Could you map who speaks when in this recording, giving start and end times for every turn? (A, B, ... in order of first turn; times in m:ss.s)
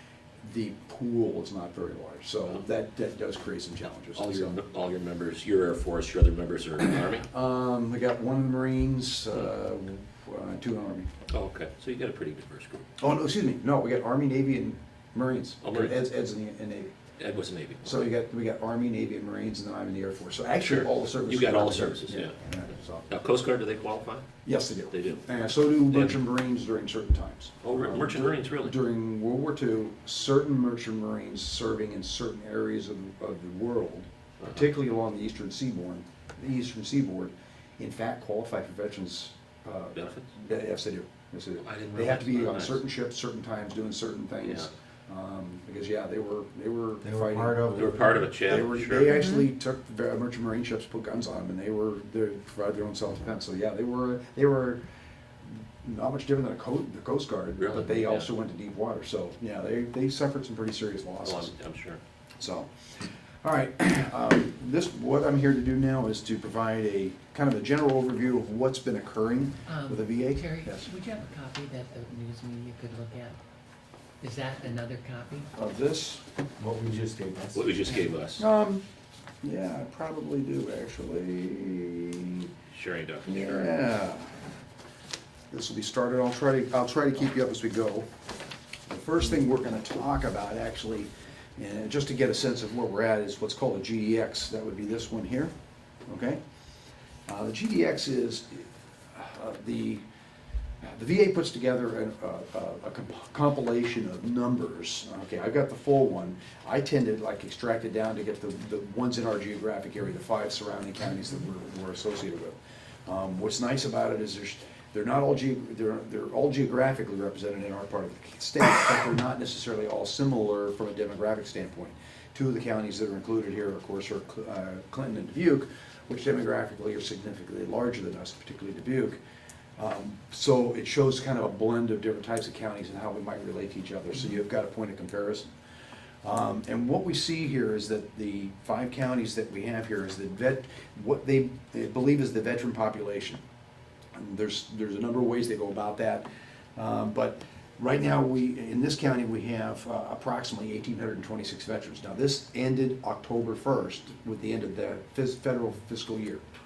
0:00.4-0:04.6 A
0:04.1-0:07.3 B
0:07.2-0:11.1 A
0:11.3-0:12.8 B
0:13.0-0:16.9 A
0:15.6-0:16.0 B
0:17.2-0:17.8 B
0:17.8-0:23.2 A
0:20.6-0:22.3 B
0:23.1-0:24.2 B
0:24.4-0:54.8 A
0:24.9-0:25.2 B
0:25.9-0:26.2 B
0:27.6-0:28.8 B
0:39.9-0:40.3 B
0:41.6-0:42.8 B
0:44.4-0:44.7 B
0:47.0-0:48.2 C
0:47.8-0:49.2 B
0:55.8-1:01.5 A
0:57.6-0:58.3 B
1:01.2-1:02.0 B
1:02.4-1:10.9 A
1:09.7-1:13.4 D
1:14.2-1:15.5 D
1:15.5-1:16.2 A
1:16.6-1:17.8 C
1:17.5-1:18.4 B
1:18.4-1:18.8 A
1:19.4-1:22.5 A
1:22.7-1:23.7 B
1:23.2-1:24.3 A
1:25.5-1:28.1 A
1:28.9-1:35.5 A
1:36.1-1:36.4 A
1:37.3-1:40.0 A
1:40.8-2:09.2 A
2:09.8-2:15.5 A
2:16.2-2:23.4 A
2:24.1-2:26.2 A
2:26.8-2:36.4 A